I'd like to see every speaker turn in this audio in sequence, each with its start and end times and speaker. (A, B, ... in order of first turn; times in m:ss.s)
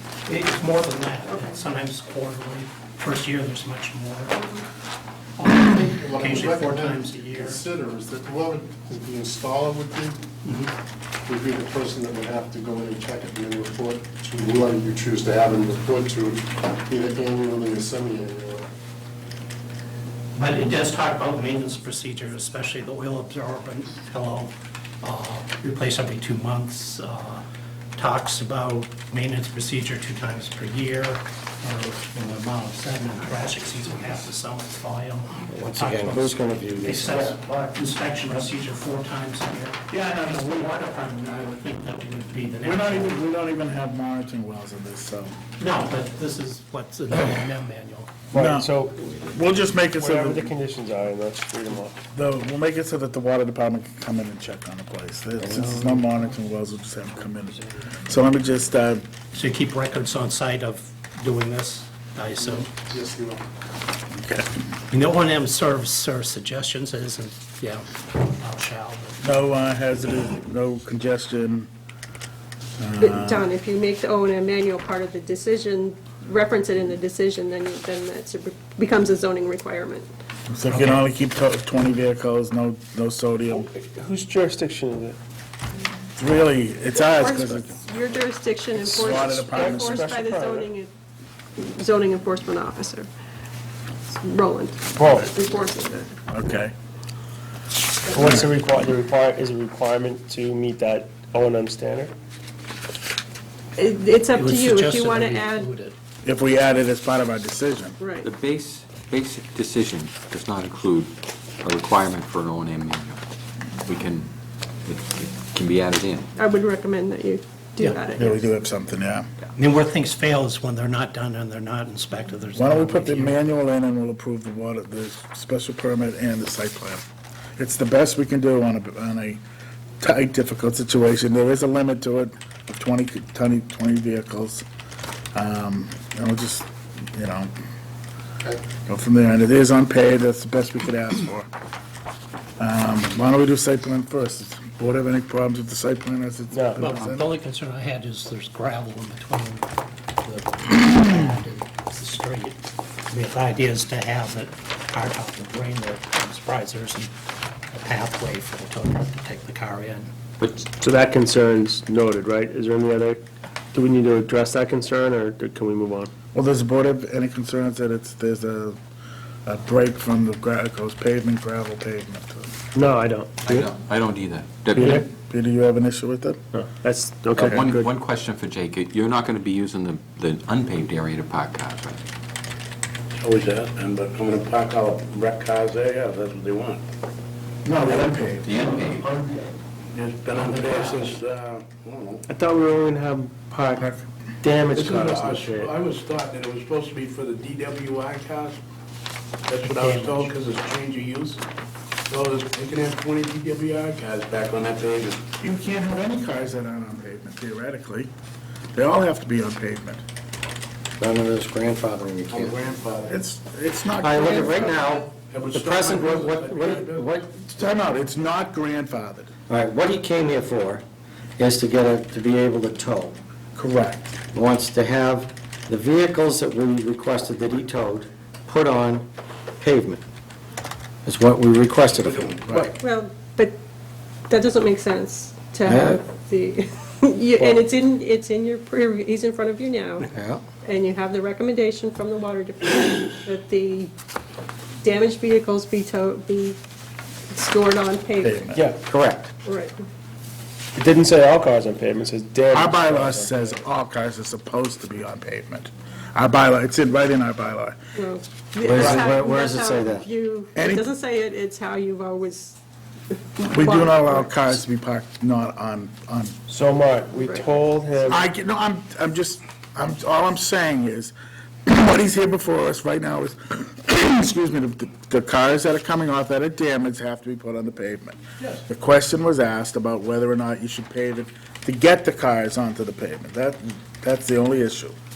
0:00.2-0:04.4 A
0:01.3-0:01.6 B
0:04.3-0:04.6 B
0:05.4-0:07.6 A
0:05.9-0:10.2 C
0:10.4-0:10.7 A
0:11.3-0:18.6 C
0:20.3-0:27.4 A
0:28.0-0:43.2 A
0:35.5-0:37.4 D
0:39.9-0:40.7 E
0:42.6-0:45.4 E
0:45.6-0:48.1 A
0:48.3-0:49.0 F
0:48.3-0:48.7 E
0:49.0-0:49.3 G
0:49.3-0:50.5 E
0:49.9-0:52.0 F
0:52.1-0:59.0 E
0:55.4-0:56.0 D
0:59.3-1:02.7 A
1:02.4-1:03.4 C
1:04.1-1:04.5 E
1:04.9-1:09.2 A
1:09.2-1:11.7 E
1:12.8-1:13.4 E
1:13.0-1:20.1 B
1:20.5-1:23.7 E
1:20.7-1:21.0 A
1:23.5-1:25.2 F
1:26.2-1:27.7 E
1:26.9-1:30.9 B
1:28.7-1:30.1 E
1:29.3-1:30.7 F
1:31.6-1:33.1 B
1:34.1-1:36.1 B
1:35.0-1:35.3 F
1:36.3-1:36.7 E
1:38.0-1:42.1 F
1:43.8-1:45.7 B
1:44.3-1:45.9 A
1:46.2-1:48.0 E
1:48.0-1:48.3 B
1:48.2-1:53.2 G
1:53.8-1:54.3 G
1:54.8-1:56.3 G
1:56.4-1:58.4 B
1:58.1-1:59.3 E
1:59.5-2:03.4 A
2:02.5-2:07.0 E
2:07.6-2:09.4 E
2:10.0-2:14.6 E
2:15.3-2:17.5 E
2:18.8-2:21.5 E
2:22.6-2:27.3 E
2:26.5-2:26.8 F
2:26.8-2:29.6 A
2:30.2-2:37.1 A
2:37.7-2:40.1 A
2:40.4-2:40.6 G
2:40.7-2:43.2 F
2:43.7-2:46.1 F
2:46.3-2:48.8 E
2:49.4-2:52.5 E
2:52.7-2:53.7 F
2:53.4-2:55.0 G
2:54.8-2:55.0 F
2:54.8-2:56.4 E
2:56.5-2:57.9 F
2:57.3-3:02.0 G
3:03.1-3:06.8 H
3:07.6-3:08.5 E
3:08.4-3:09.1 G
3:09.0-3:09.5 F
3:09.9-3:12.2 H
3:10.3-3:11.1 A
3:12.3-3:13.9 F
3:14.4-3:15.7 F
3:14.7-3:18.6 H
3:19.5-3:21.4 H
3:19.6-3:20.3 A
3:22.1-3:25.2 H
3:25.4-3:28.1 E
3:28.7-3:30.0 E
3:31.0-3:32.6 D
3:32.3-3:33.2 H
3:33.1-3:34.7 E
3:34.0-3:37.3 D
3:34.2-3:37.2 H
3:37.3-3:39.3 E
3:39.5-3:40.8 D
3:41.4-3:43.2 D
3:43.6-3:44.2 E
3:44.3-3:49.0 D
3:49.6-3:50.0 D
3:51.0-3:52.4 D
3:52.0-3:52.6 H
3:52.6-3:53.5 B
3:54.3-4:00.1 B
3:55.6-3:56.0 D
4:00.1-4:00.4 D
4:00.6-4:03.9 B
4:04.8-4:06.6 B
4:07.3-4:08.4 B
4:08.2-4:08.6 E
4:08.8-4:09.3 D
4:09.4-4:09.8 B
4:10.7-4:13.6 F
4:12.5-4:17.8 E
4:17.9-4:22.6 B
4:18.6-4:20.0 D
4:20.5-4:20.9 E
4:23.1-4:24.5 B
4:23.5-4:26.3 E
4:26.5-4:28.2 F
4:27.2-4:28.1 B
4:28.1-4:31.1 E
4:31.7-4:44.9 E